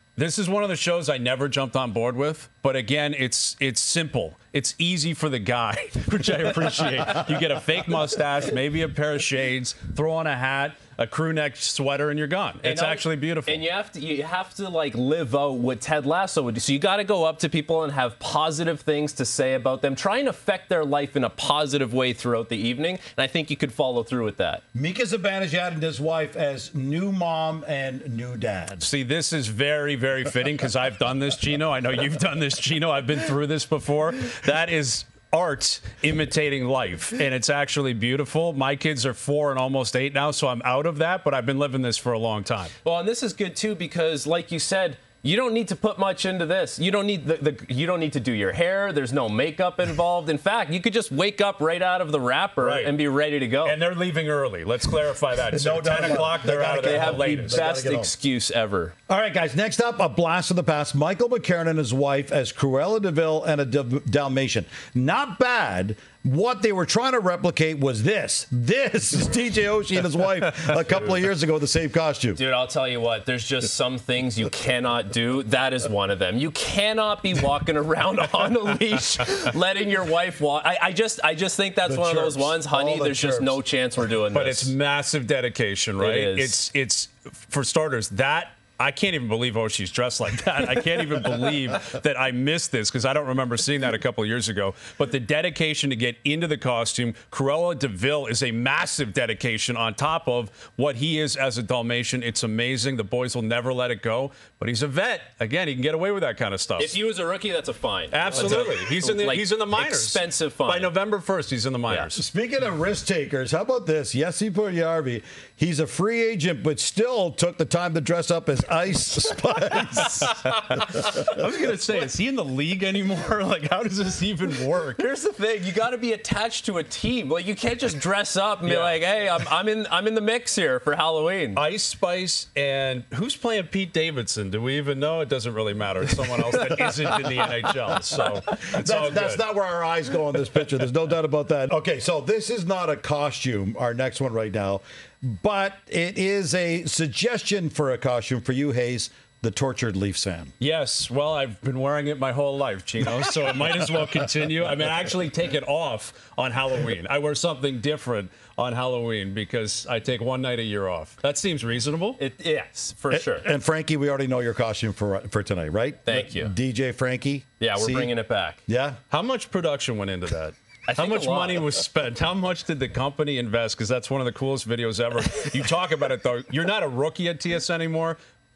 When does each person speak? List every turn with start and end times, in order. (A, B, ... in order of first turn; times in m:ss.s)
0:00.2-0:13.6 A
0:12.6-0:24.6 B
0:24.7-0:28.9 C
0:28.8-0:42.7 A
0:42.8-0:53.8 B
0:52.6-0:52.9 A
0:53.6-0:57.6 A
0:55.5-0:58.1 C
0:56.7-0:59.0 B
0:59.1-1:12.4 C
1:12.4-1:24.7 B
1:21.8-1:23.6 C
1:24.3-1:47.0 A
1:26.0-1:26.6 B
1:46.8-1:50.9 B
1:48.1-1:52.2 A
1:51.9-1:52.1 B
1:52.2-2:00.3 C
2:00.2-2:05.1 A
2:00.2-2:01.4 B
2:05.0-2:11.6 B
2:08.6-2:09.0 A
2:11.6-2:19.4 A
2:16.1-2:17.6 B
2:18.8-2:30.5 C
2:30.6-2:42.2 A
2:42.2-2:43.5 B
2:43.1-2:48.1 C
2:46.0-2:46.5 B
2:47.6-2:48.6 B
2:48.7-2:49.0 C
2:49.1-2:58.2 A
2:50.9-2:51.7 B